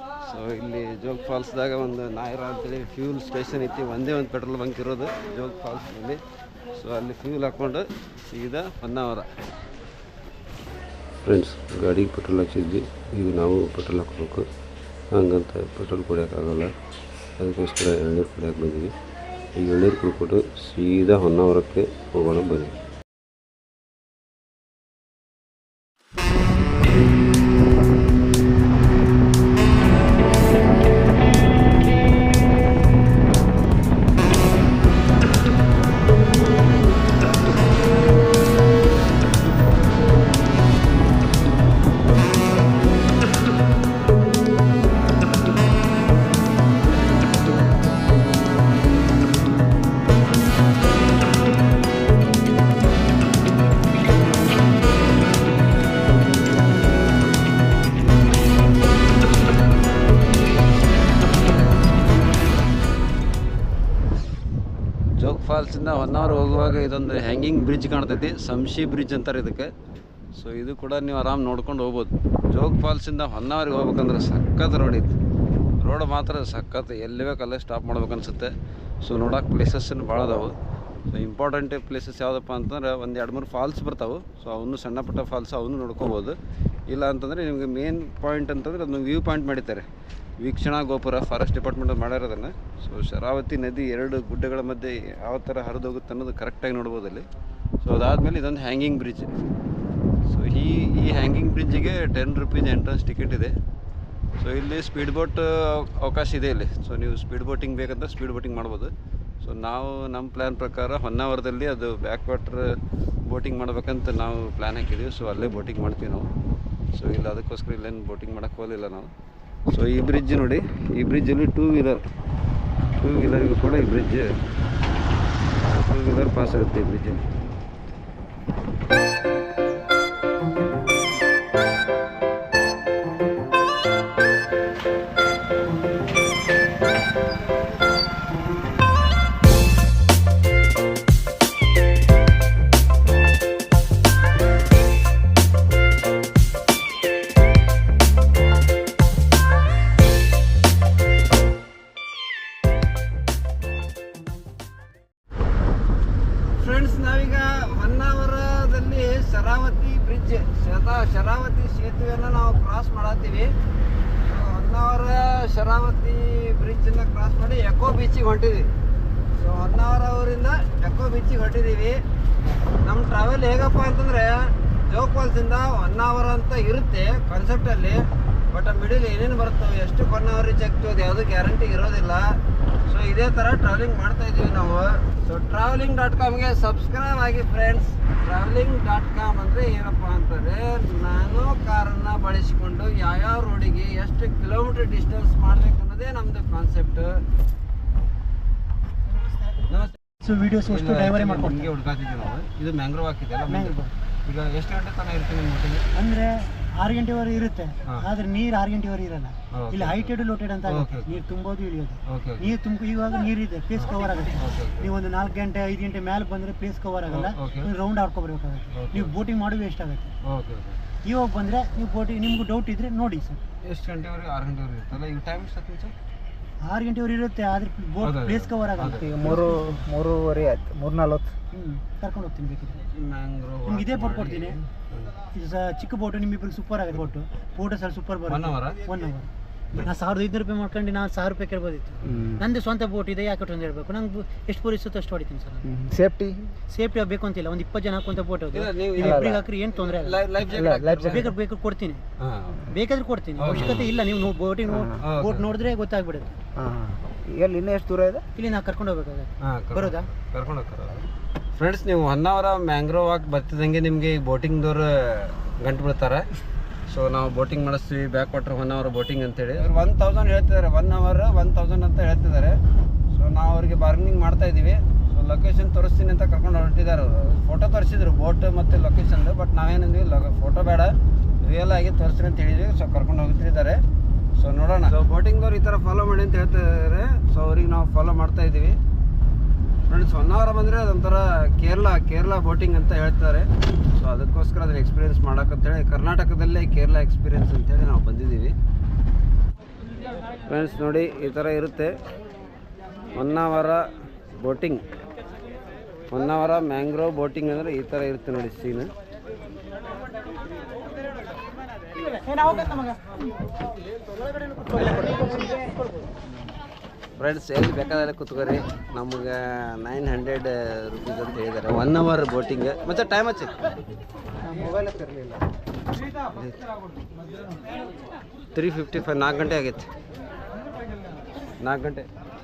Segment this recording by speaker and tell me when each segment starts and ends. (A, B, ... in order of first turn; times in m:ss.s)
0:00.2-0:09.3 A
0:11.2-0:14.5 A
0:15.1-0:16.7 A
0:17.4-0:18.9 A
0:19.6-0:22.8 A
1:05.2-1:09.7 A
1:10.3-1:15.2 A
1:15.8-1:20.5 A
1:21.1-1:26.4 A
1:26.9-1:29.8 A
1:30.4-1:37.2 A
1:37.8-1:39.3 A
1:40.2-1:43.5 A
1:44.4-1:52.7 A
1:53.2-1:56.3 A
1:56.9-1:59.1 A
1:59.7-2:02.0 A
2:03.0-2:04.4 A
2:05.6-2:07.2 A
2:36.5-2:43.5 A
2:44.2-2:48.7 A
2:49.3-2:52.0 A
2:52.8-3:17.2 A
3:19.7-3:19.9 A
3:20.2-3:21.7 B
3:20.6-3:25.9 A
3:23.5-3:23.9 B
3:25.9-3:40.1 B
3:29.5-3:30.1 A
3:30.7-3:31.2 A
3:32.1-3:32.5 A
3:33.8-3:34.9 A
3:37.1-3:37.7 A
3:38.7-3:39.1 A
3:40.2-3:40.8 A
3:41.0-3:43.4 B
3:43.6-3:45.9 A
3:46.6-3:49.5 B
3:48.0-3:49.7 A
3:48.9-3:51.3 C
3:51.5-3:52.8 B
3:52.8-3:55.1 A
3:53.6-3:54.6 B
3:55.3-4:05.7 B
3:58.3-3:58.8 A
4:02.0-4:02.4 C
4:05.6-4:06.5 C
4:06.7-4:10.2 B
4:08.5-4:11.3 A
4:09.0-4:09.4 C
4:10.5-4:11.3 C
4:11.0-4:12.0 B
4:12.2-4:12.7 A
4:12.7-4:16.3 B
4:13.4-4:13.9 A
4:14.7-4:15.0 C
4:15.0-4:15.5 A
4:16.6-4:18.2 C
4:18.4-4:20.1 B
4:19.4-4:26.2 A
4:26.9-4:32.6 A
4:33.1-4:43.8 A
4:44.4-4:48.8 A
4:49.9-4:58.5 A
5:00.5-5:01.9 A
5:03.1-5:04.8 A
5:06.1-5:08.9 A
5:12.3-5:12.8 B
5:14.5-5:15.1 B
5:17.2-5:23.5 A
5:24.4-5:25.4 C
5:26.3-5:26.6 A
5:28.5-5:29.9 A
5:31.6-5:32.1 A